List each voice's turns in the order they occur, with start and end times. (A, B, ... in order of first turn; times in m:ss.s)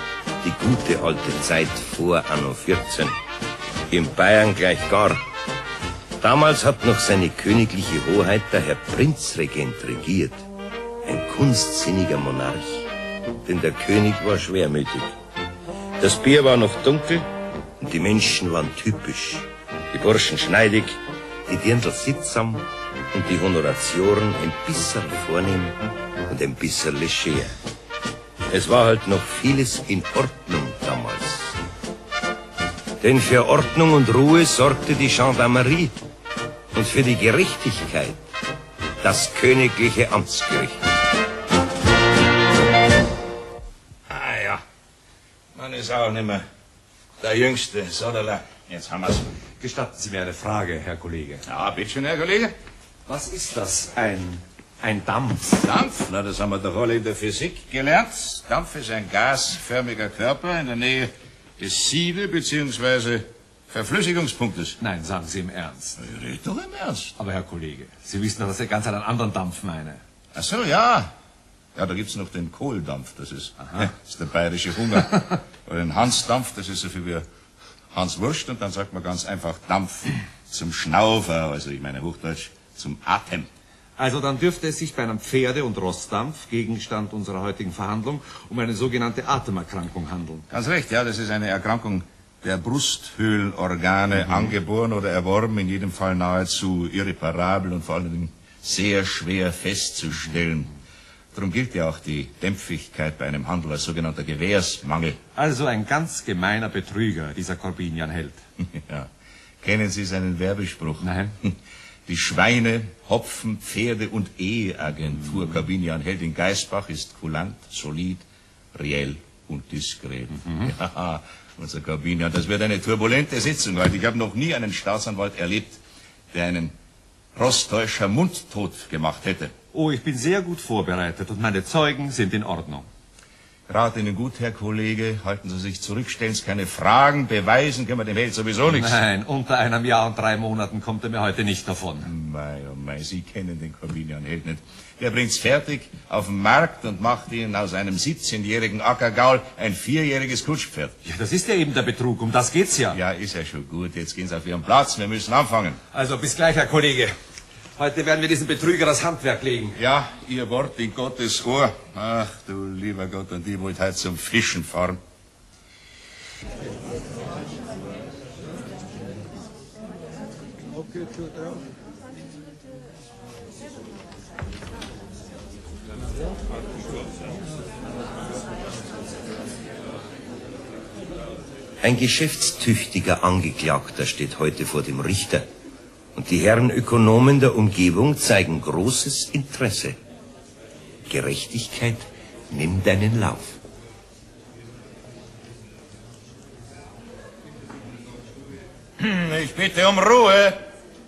0:00.4-0:03.2 A
0:03.9-0:05.2 A
0:06.2-0:10.4 A
0:11.0-0:12.9 A
0:13.4-0:15.1 A
0:16.0-0:17.2 A
0:17.8-0:25.8 A
0:26.3-0:27.5 A
0:28.5-0:31.6 A
0:33.0-0:36.0 A
0:36.7-0:38.2 A
0:39.0-0:40.8 A
0:44.1-0:44.6 B
0:45.6-0:46.4 B
0:47.2-0:49.3 B
0:49.6-0:51.4 C
0:51.5-0:52.5 B
0:53.1-0:55.6 C
0:55.6-1:04.8 B
1:04.8-1:06.0 C
1:06.0-1:07.1 B
1:07.2-1:10.0 C
1:10.4-1:11.1 B
1:11.8-1:17.3 B
1:17.9-1:23.5 B
1:24.0-1:30.4 C
1:30.5-1:40.7 B
1:41.3-1:45.2 B
1:45.4-1:48.4 C
1:48.6-1:49.1 B
1:49.6-1:51.6 B
1:51.0-1:51.3 C
1:52.1-2:05.8 B
2:06.3-2:06.8 B
2:07.4-2:09.5 B
2:09.7-2:12.9 C
2:13.7-2:19.0 B
2:18.7-2:22.1 C
2:22.0-2:31.0 B
2:31.0-2:33.0 C
2:32.9-2:35.8 B
2:35.9-2:37.1 C
2:37.8-2:39.8 C
2:39.8-2:45.0 B
3:01.8-3:05.5 A
3:06.2-3:10.0 A
3:11.1-3:13.6 A
3:19.0-3:20.6 B